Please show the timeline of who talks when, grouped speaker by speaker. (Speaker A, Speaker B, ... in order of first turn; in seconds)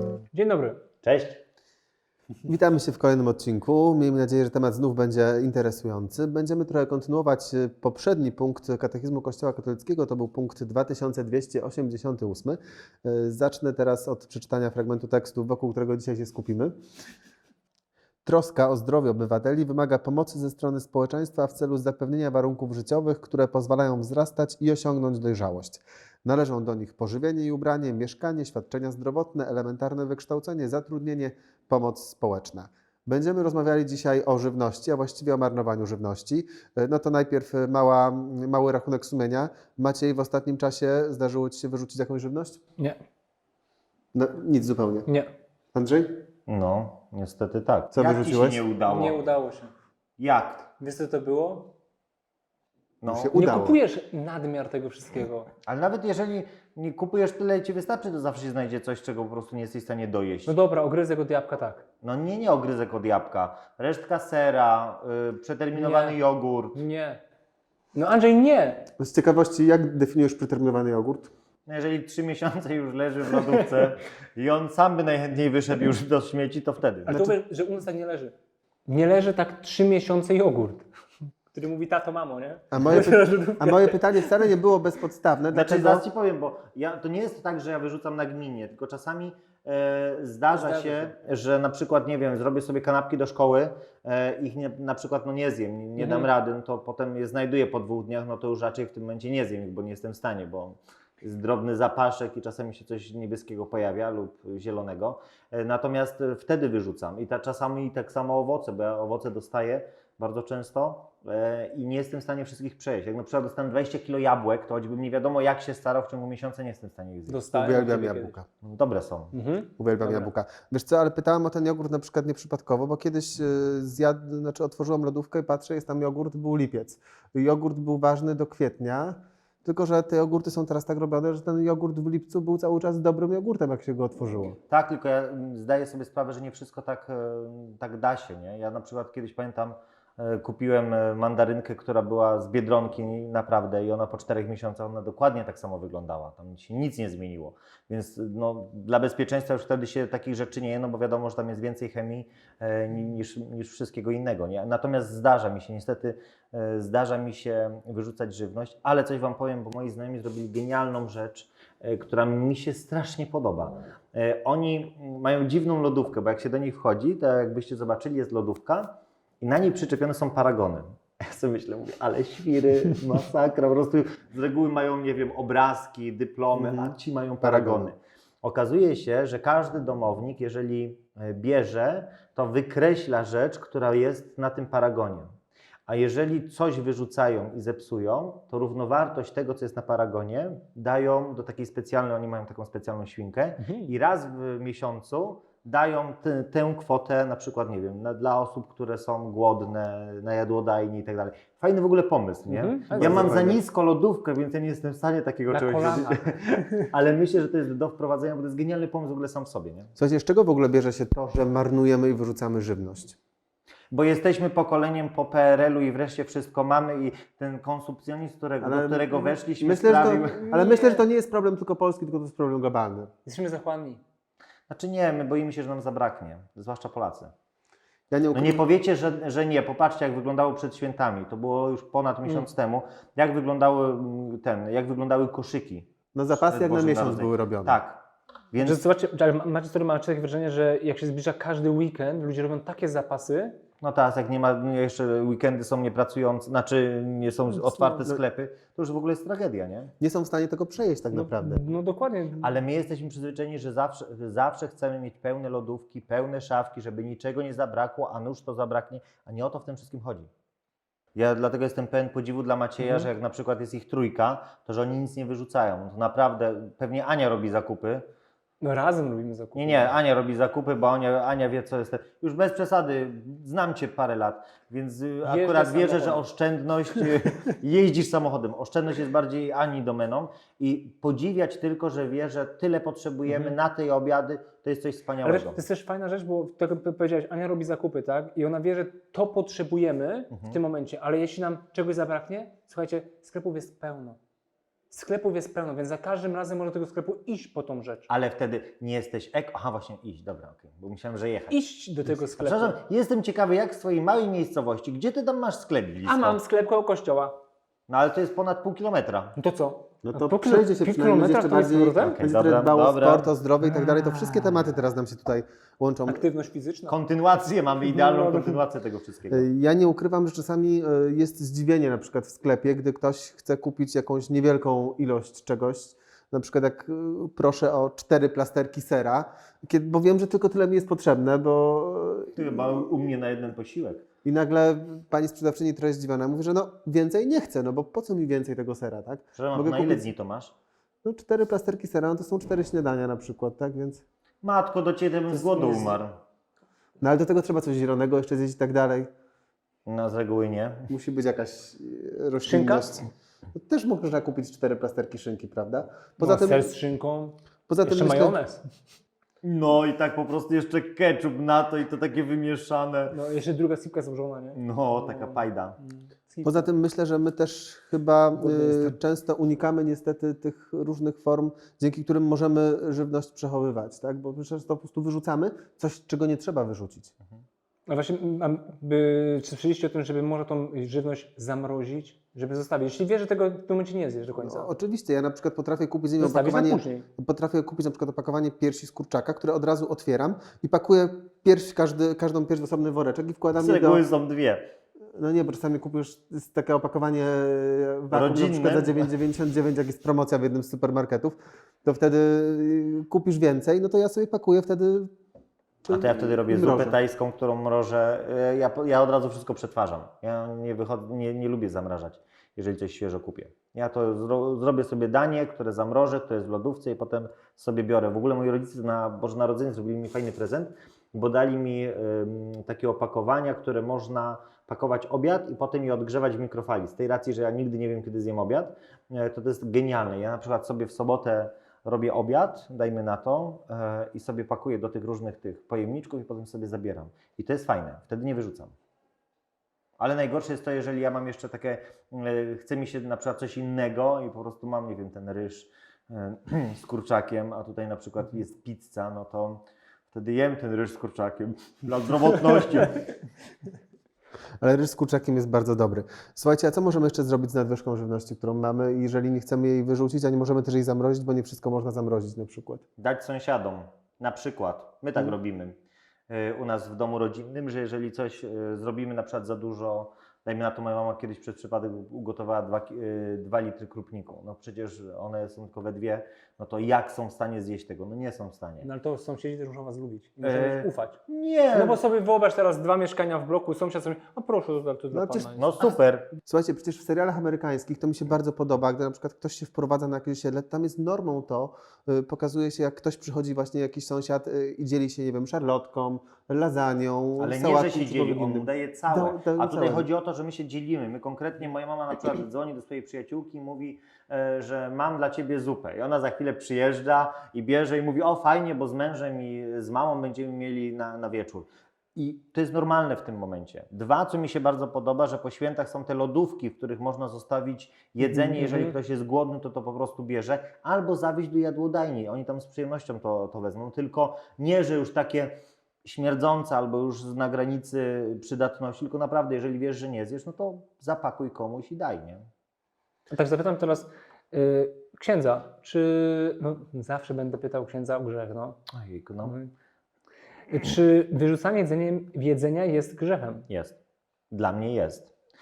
Speaker A: 0.3-0.9, 48.9-49.7, 50.8-51.7, 53.3-55.5, 60.5-61.9, 65.8-66.2, 66.8-67.2, 68.0-68.9, 73.3-73.7, 77.1-78.3, 78.9-80.8, 81.5-84.3, 90.5-91.2, 96.0-96.3, 117.3-118.4, 119.3-120.3, 193.6-193.9, 202.5-203.4, 205.5-206.7, 220.3-221.0, 223.3-224.0, 238.6-243.6, 251.1-252.6, 268.6-269.9, 275.2-276.2, 283.3-283.6, 285.2-294.2, 294.9-298.1, 301.5-302.8, 306.0-307.4, 309.4-312.2, 316.1-318.6, 345.3-346.0, 352.4-353.0, 356.2-358.6, 363.1-366.7, 368.4-369.0, 377.9-384.7, 386.2-387.1, 478.8-481.2, 481.7-485.9, 518.2-519.0, 533.3-538.8, 539.4-539.7, 540.7-543.7
Speaker B: 1.0-1.4, 46.5-49.2, 50.2-50.7, 53.0-53.4, 55.7-60.5, 62.0-66.8, 71.7-77.2, 85.5-117.5, 118.6-119.3, 134.7-185.3, 185.9-209.9, 213.9-220.5, 224.7-227.3, 228.3-238.8, 243.8-249.9, 252.4-260.3, 261.1-268.0, 269.6-285.6, 290.3-290.6, 298.1-301.6, 302.4-306.4, 307.9-309.3, 312.0-313.3, 316.9-319.5, 332.3-334.0, 339.4-340.5, 344.4-346.2, 349.9-350.9, 359.4-363.1, 364.5-365.8, 393.6-394.6, 398.1-399.1, 405.9-438.7, 440.0-453.1, 463.0-465.8, 466.3-478.9, 480.4-482.0, 485.6-486.3, 497.4-525.5, 526.0-532.5, 538.9-539.6, 543.7-544.0, 544.5-545.3
Speaker C: 2.4-16.8, 18.2-42.6, 44.1-45.1, 45.7-46.2, 47.9-48.6, 53.1-53.8, 69.0-71.3, 77.1-77.4, 82.7-86.0, 117.5-118.5, 119.8-134.6, 176.5-177.9, 202.9-203.6, 210.0-213.2, 218.6-223.1, 228.1-228.7, 236.2-237.8, 247.6-248.2, 250.0-251.7, 310.1-316.2, 319.3-332.8, 334.2-340.1, 341.0-344.0, 347.0-349.1, 350.9-353.1, 353.6-356.7, 357.7-358.4, 366.4-377.1, 384.4-394.1, 395.1-405.1, 405.9-407.0, 454.6-462.9, 485.1-485.5, 486.4-500.1